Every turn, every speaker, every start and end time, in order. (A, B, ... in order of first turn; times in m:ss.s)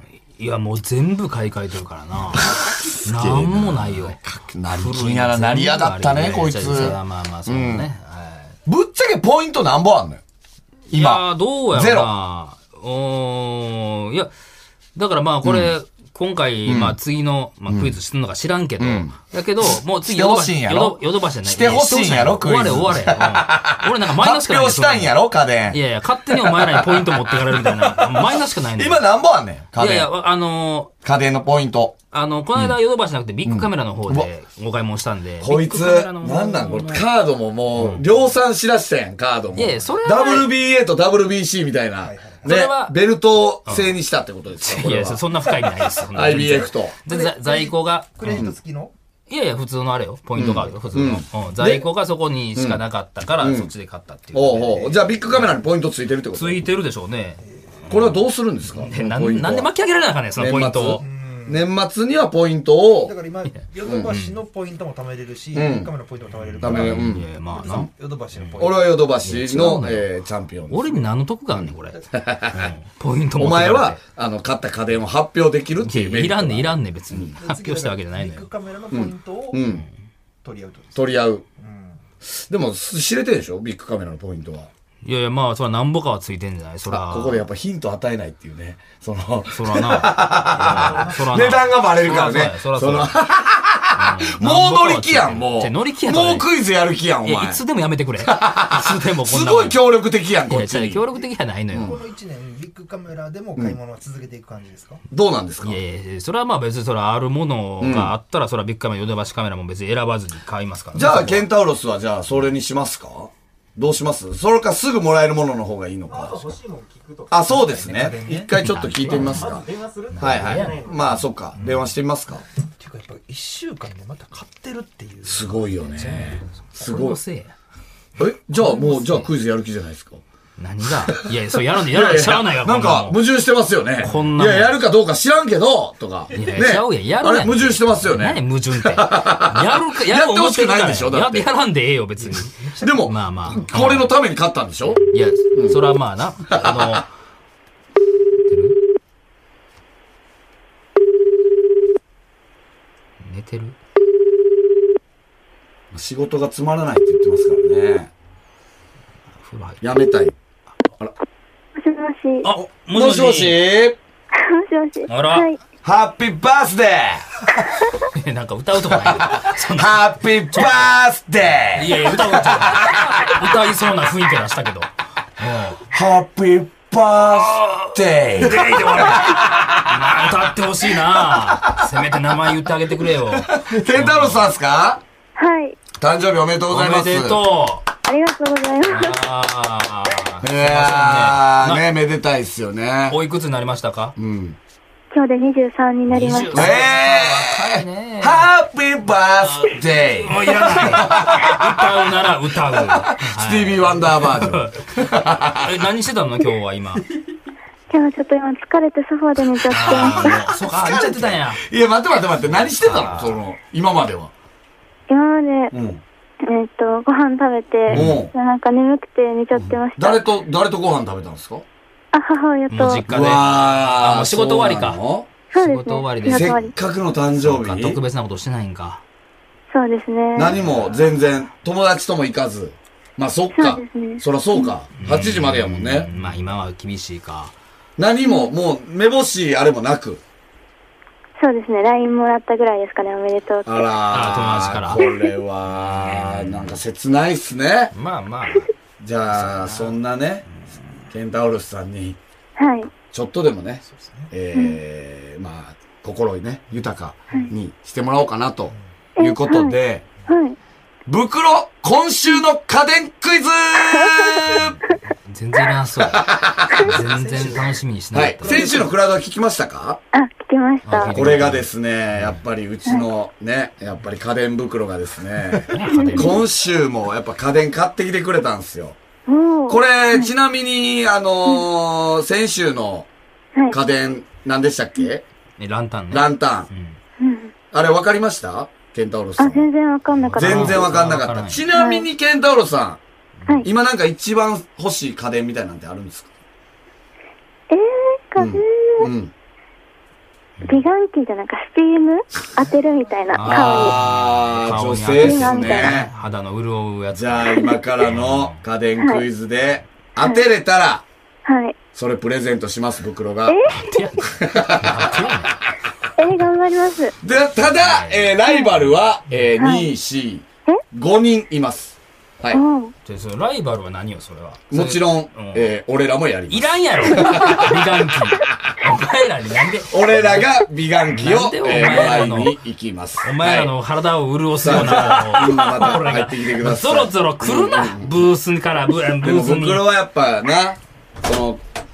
0:00.4-0:02.5 A
0:02.3-0:07.9 B
0:03.0-0:04.2 A
0:04.7-0:08.5 A
0:08.6-0:10.2 B
0:10.9-0:12.1 B
0:10.9-0:14.3 A
0:14.9-0:25.1 A
0:15.4-0:15.7 B
0:16.6-0:17.0 B
0:17.7-0:17.9 B
0:18.8-0:30.1 B
0:25.7-0:29.0 A
0:29.7-0:30.9 A
0:31.0-0:32.0 B
0:32.1-0:37.0 A
0:33.4-0:34.3 B
0:35.4-0:45.2 B
0:37.7-0:38.0 A
0:39.5-0:40.5 A
0:42.0-0:42.4 C
0:42.4-0:43.0 A
0:43.6-0:43.9 A
0:44.6-0:48.4 A
0:46.1-0:47.0 B
0:47.0-0:48.9 C
0:48.2-0:48.5 B
0:49.3-0:55.0 A
0:50.4-0:51.9 B
0:52.5-0:52.8 B
0:53.4-0:53.7 B
0:54.3-0:56.6 B
0:56.3-0:58.2 A
0:57.4-0:57.9 C
0:57.9-0:59.7 B
0:58.8-1:01.0 A
1:00.4-1:03.1 B
1:01.0-1:01.7 C
1:03.0-1:09.0 C
1:03.5-1:04.4 A
1:03.8-1:04.1 B
1:05.5-1:05.9 B
1:06.5-1:08.7 A
1:06.6-1:07.2 B
1:08.6-1:11.0 B
1:09.2-1:10.1 A
1:10.7-1:14.0 A
1:12.1-1:12.7 B
1:13.4-1:17.3 B
1:15.8-1:18.4 A
1:17.4-1:19.6 C
1:18.9-1:19.8 B
1:20.4-1:22.0 C
1:20.9-1:21.4 B
1:22.3-1:24.7 B
1:25.0-1:27.4 A
1:26.9-1:37.6 B
1:29.5-1:33.2 A
1:30.6-1:31.0 C
1:33.9-1:36.5 A
1:37.2-1:39.8 A
1:38.2-1:41.0 B
1:40.5-1:41.9 A
1:41.7-1:42.0 B
1:41.7-1:45.0 C
1:45.1-1:45.8 B
1:45.6-1:51.5 A
1:47.8-1:48.1 B
1:50.9-1:56.4 B
1:56.1-1:58.1 D
1:57.3-1:59.6 B
1:57.5-1:58.5 C
1:58.5-1:59.5 A
1:59.1-2:01.2 D
2:00.1-2:01.9 A
2:00.2-2:02.4 B
2:02.8-2:06.5 C
2:05.2-2:07.2 B
2:06.0-2:07.5 A
2:08.2-2:10.2 B
2:08.8-2:09.3 A
2:10.6-2:13.2 A
2:11.9-2:21.5 B
2:14.0-2:14.8 A
2:16.3-2:24.1 A
2:22.2-2:23.0 C
2:22.8-2:25.8 B
2:25.1-2:27.1 A
2:26.5-2:27.0 B
2:28.5-2:28.8 A
2:33.2-2:33.8 A
2:35.9-2:38.1 B
2:39.4-2:39.8 A
2:39.8-2:40.3 B
2:41.8-2:42.5 E
2:42.4-2:43.6 A
2:42.9-2:44.0 B
2:44.3-2:45.6 E
2:45.1-2:45.5 A
2:45.8-2:47.2 B
2:48.1-2:50.9 A
2:48.9-2:53.5 B
2:51.7-2:55.8 A
2:55.9-3:01.9 B
2:57.3-3:04.5 A
3:03.4-3:05.0 B
3:05.4-3:05.8 E
3:06.0-3:07.4 B
3:06.7-3:07.9 A
3:08.0-3:09.2 E
3:08.9-3:11.8 A
3:10.4-3:13.2 B
3:13.1-3:14.1 A
3:14.2-3:14.6 B
3:15.1-3:16.9 E
3:16.1-3:18.5 A
3:16.5-3:22.1 B
3:19.5-3:27.1 A
3:22.6-3:25.8 B
3:27.9-3:30.5 E
3:29.7-3:31.6 A
3:29.7-3:34.3 B
3:32.4-3:33.4 A
3:35.1-3:35.7 E
3:35.7-3:36.0 B
3:36.4-3:40.2 E
3:37.9-3:38.2 A
3:37.9-3:38.3 B
3:39.5-3:41.6 B
3:42.1-3:43.0 E
3:42.7-3:45.0 A
3:43.0-3:45.3 B
3:45.5-3:46.7 E
3:45.6-3:46.7 A
3:46.2-3:48.0 B
3:47.4-3:49.0 A
3:49.7-3:50.6 E
3:50.3-3:56.1 B
3:50.6-3:50.9 A
3:53.5-3:54.7 E
3:55.0-3:57.5 A
3:58.0-4:00.2 B
3:58.2-3:58.5 E
4:01.4-4:03.8 E
4:03.6-4:07.9 B
4:04.1-4:05.0 A
4:05.8-4:06.8 A
4:07.9-4:08.7 A
4:09.0-4:10.4 B
4:09.3-4:10.0 A
4:11.1-4:12.2 B
4:12.6-4:13.0 E
4:13.0-4:20.0 B
4:13.8-4:14.3 C
4:19.2-4:19.8 E
4:20.3-4:20.6 E
4:21.1-4:24.8 B
4:23.9-4:24.6 E
4:25.3-4:26.2 A
4:26.0-4:26.9 B
4:26.7-4:27.0 E
4:26.8-4:28.8 A
4:26.9-4:29.0 C
4:28.1-4:30.0 B
4:30.1-4:31.3 E
4:30.8-4:32.4 A
4:31.0-4:39.0 B
4:35.7-4:36.4 A
4:35.8-4:36.4 E
4:39.3-4:40.3 E
4:39.7-4:43.1 B
4:43.7-4:45.2 B
4:45.6-4:47.0 A
4:46.1-4:46.7 B
4:47.2-4:47.5 E
4:47.7-4:49.7 B
4:49.4-4:50.9 E
4:50.1-4:51.6 A
4:50.4-4:53.0 B
4:51.7-4:52.0 E
4:53.6-4:56.3 B
4:57.7-4:59.1 E
4:58.4-4:59.3 B
5:00.6-5:04.0 E
5:03.3-5:08.6 A
5:03.4-5:06.1 B
5:05.2-5:06.1 E
5:07.1-5:11.0 B
5:11.4-5:11.8 E
5:11.9-5:13.6 B
5:13.5-5:14.0 E
5:13.8-5:15.6 A
5:14.3-5:15.5 B
5:16.2-5:17.1 E
5:17.2-5:22.6 B
5:17.7-5:18.8 A
5:19.6-5:19.9 E
5:22.5-5:22.9 E
5:23.0-5:25.7 A
5:24.7-5:28.7 B
5:26.5-5:30.5 A
5:27.2-5:27.5 E
5:29.9-5:33.7 B
5:31.1-5:32.6 A
5:33.2-5:39.9 A
5:34.6-5:38.2 B
5:39.2-5:41.6 B